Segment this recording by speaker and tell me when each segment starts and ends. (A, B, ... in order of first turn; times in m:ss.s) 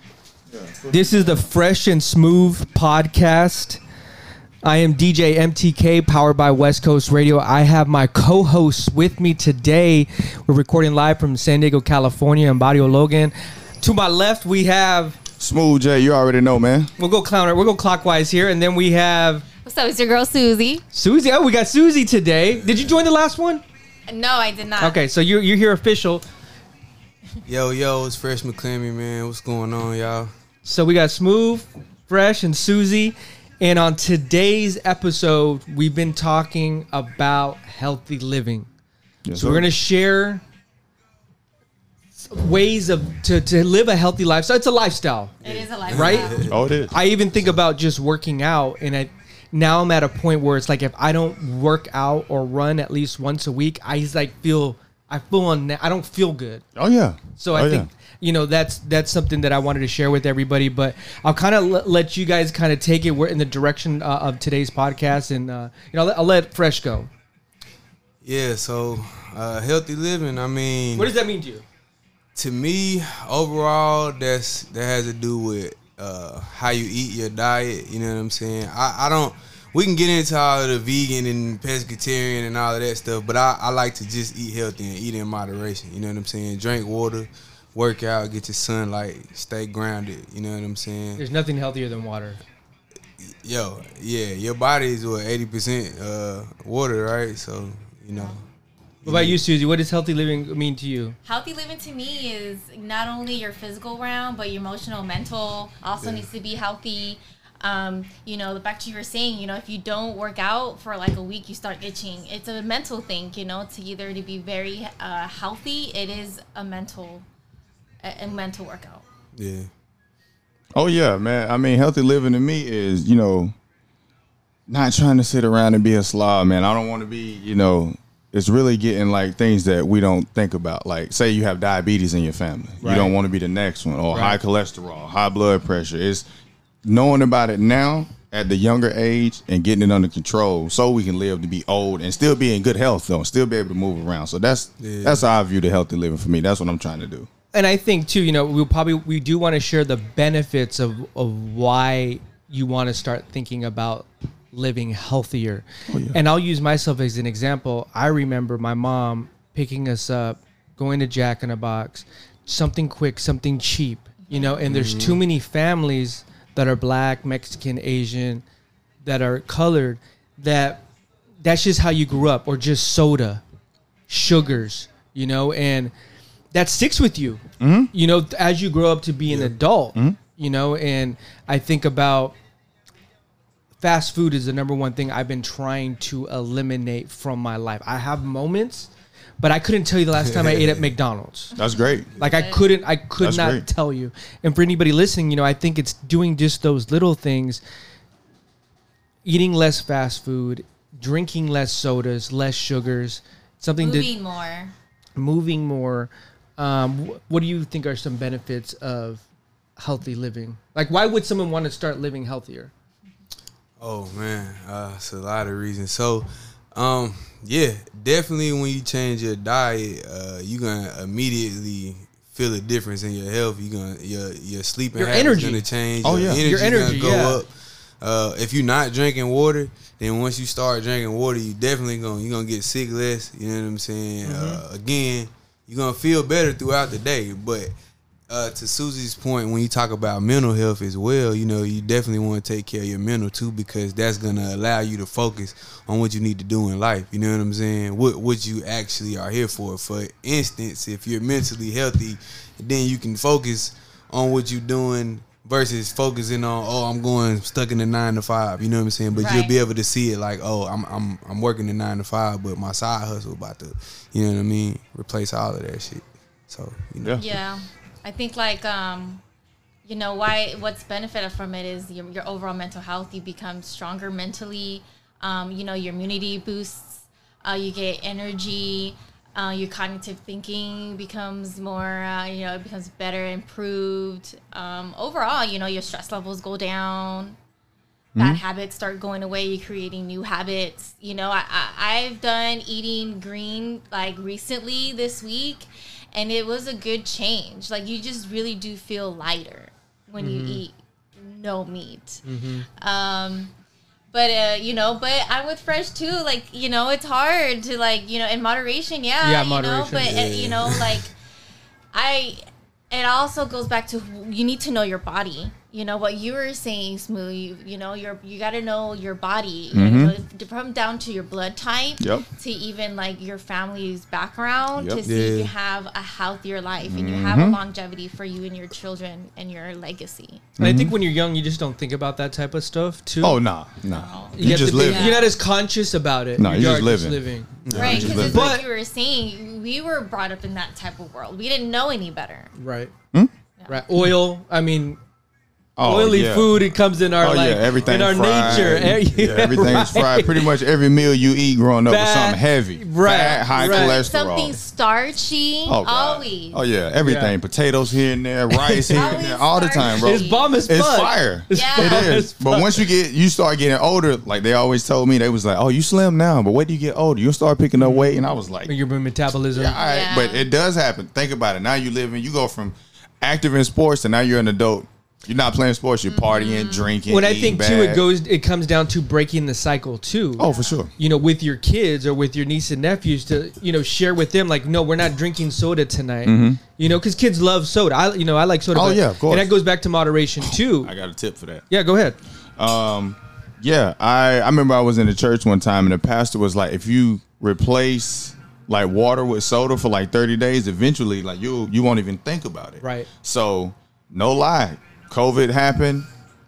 0:00.5-0:01.4 A
0:00.9-0:03.8 B
0:04.6-0:15.2 B
0:15.4-0:16.9 A
0:17.0-0:19.4 B
0:19.6-0:20.8 C
0:20.9-0:23.6 B
0:22.5-0:23.0 D
0:24.1-0:25.0 C
0:24.8-0:26.2 B
0:27.5-0:30.3 D
0:30.6-0:38.7 B
0:39.2-0:39.7 A
0:39.3-0:40.4 B
0:42.2-0:45.4 B
0:45.4-0:46.8 D
0:45.4-0:46.6 C
0:45.9-0:56.7 B
0:46.5-0:46.9 A
0:56.8-0:57.9 A
0:57.4-1:07.1 B
1:08.2-1:11.1 D
1:10.9-1:11.6 B
1:12.3-1:31.2 D
1:31.2-1:32.4 B
1:33.2-1:38.4 D
1:39.0-1:39.4 D
1:39.0-1:41.2 B
1:41.2-1:57.2 C
1:46.0-1:46.3 D
1:58.0-1:59.0 C
1:59.4-1:59.7 D
2:00.7-2:03.5 A
2:04.7-2:16.2 A
2:12.8-2:13.1 B
2:14.1-2:14.4 B
2:16.8-2:27.3 A
2:24.8-2:25.3 D
2:27.5-2:48.4 B
2:35.9-2:36.2 A
2:44.3-2:44.6 C
2:44.7-2:45.2 D
2:49.0-2:50.8 B
2:51.4-2:53.4 B
2:54.1-2:55.9 B
2:56.5-3:02.3 B
2:57.6-2:57.9 A
3:03.8-3:11.5 B
3:10.2-3:10.8 D
3:11.6-3:12.1 A
3:11.6-3:12.8 C
3:12.2-3:17.6 B
3:13.2-3:13.7 A
3:19.2-3:24.1 B
3:23.8-3:24.7 C
3:25.2-3:29.2 B
3:29.8-3:32.7 B
3:33.8-3:57.7 D
3:45.0-3:45.7 B
3:46.0-3:46.4 A
3:46.2-3:47.4 B
3:58.3-4:27.2 D
4:19.1-4:19.5 C
4:27.2-4:29.2 C
4:29.8-4:47.4 C
4:48.1-4:48.4 A
4:48.2-5:02.2 C
5:00.2-5:00.6 B
5:02.2-5:02.7 B
5:02.8-5:03.5 C
5:04.1-5:11.1 C
5:09.2-5:10.2 B
5:09.9-5:11.0 D
5:11.9-5:30.5 C
5:19.7-5:20.1 A
5:22.0-5:22.3 A
5:24.8-5:25.0 A
5:25.0-5:25.5 D
5:26.9-5:27.6 A
5:30.6-5:31.0 A
5:30.6-5:33.4 B
5:33.2-5:35.2 A
5:33.9-5:35.3 C
5:34.4-5:38.6 B
5:36.4-5:38.5 A
5:37.6-5:38.3 D
5:37.8-5:42.5 C
5:42.6-5:42.9 B
5:43.7-5:45.0 B
5:45.8-5:54.6 A
5:45.8-5:50.5 B
5:47.9-5:48.8 D
5:51.9-5:54.0 B
5:53.2-5:56.6 C
5:55.7-6:08.7 A
5:57.0-5:57.3 B
5:58.5-5:59.2 B
5:58.9-6:00.6 C
5:59.8-6:02.9 B
6:01.5-6:02.1 C
6:07.8-6:09.8 B
6:09.5-6:18.0 A
6:09.8-6:10.4 C
6:16.1-6:16.9 C
6:17.1-6:20.4 B
6:20.4-6:20.9 A
6:20.4-6:20.8 C
6:21.0-6:30.9 B
6:26.2-6:26.6 A
6:28.7-6:29.5 A
6:30.4-6:31.6 A
6:31.7-6:32.2 B
6:32.6-6:46.1 A
6:42.8-6:43.1 B